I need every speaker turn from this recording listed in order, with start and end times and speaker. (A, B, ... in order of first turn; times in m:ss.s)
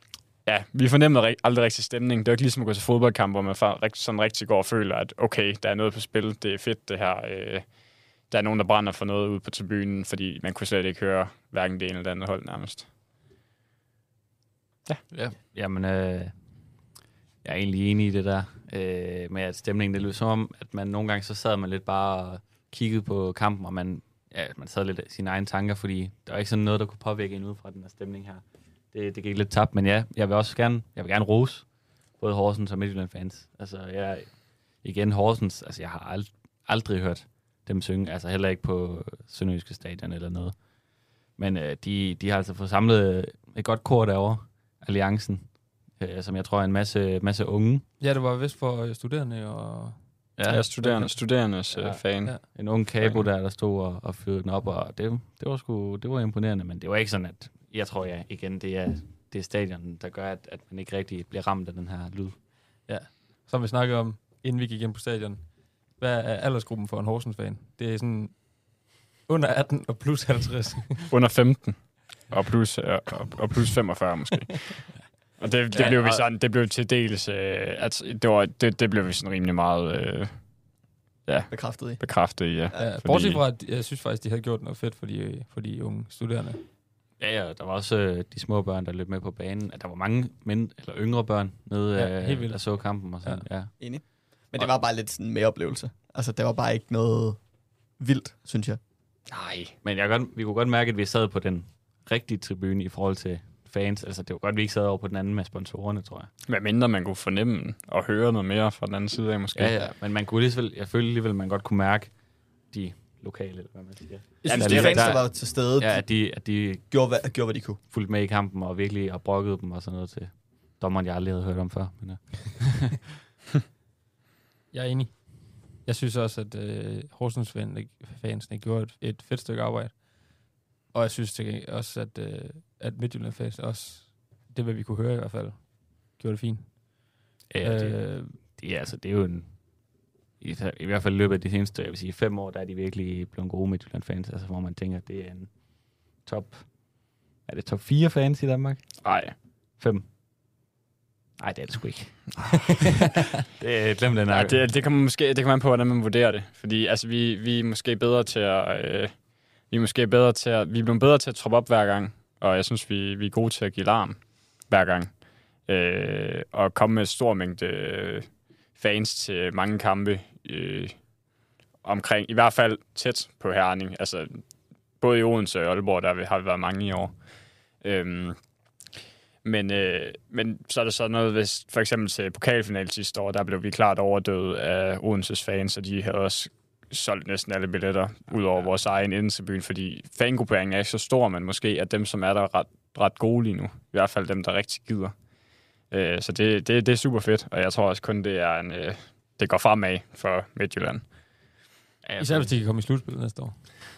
0:00.4-0:07.7 A
0:08.2-0:12.9 A
0:15.1-0:16.4 B
0:17.4-0:40.6 B
0:41.4-0:47.8 B
0:48.0-0:51.1 C
0:50.4-0:50.8 B
0:50.5-0:52.4 A
0:51.7-1:02.4 B
0:53.0-0:53.2 A
1:02.9-1:11.1 C
1:11.1-1:20.5 A
1:15.7-1:16.2 B
1:21.2-1:23.4 A
1:21.5-1:22.0 D
1:22.7-1:26.6 C
1:27.2-1:33.7 B
1:31.9-1:33.4 C
1:33.8-1:37.4 D
1:38.0-1:38.8 D
1:39.3-1:39.7 A
1:39.8-1:46.3 B
1:46.5-1:49.9 A
1:49.5-1:56.8 B
1:54.4-1:56.1 D
1:54.4-1:55.2 A
1:56.9-1:57.8 D
1:57.9-2:03.0 B
2:04.7-2:10.0 C
2:10.9-2:17.0 C
2:17.5-2:19.7 B
2:17.6-2:18.4 C
2:20.4-2:25.6 B
2:26.1-2:29.0 B
2:29.0-2:29.3 A
2:29.8-2:30.1 B
2:31.4-2:32.6 B
2:33.5-2:34.6 B
2:34.3-2:51.0 A
2:51.8-2:54.4 A
2:55.0-2:57.2 A
2:57.8-2:58.4 A
2:59.4-3:15.1 A
3:15.9-3:21.0 A
3:22.0-3:22.5 B
3:22.2-3:23.6 C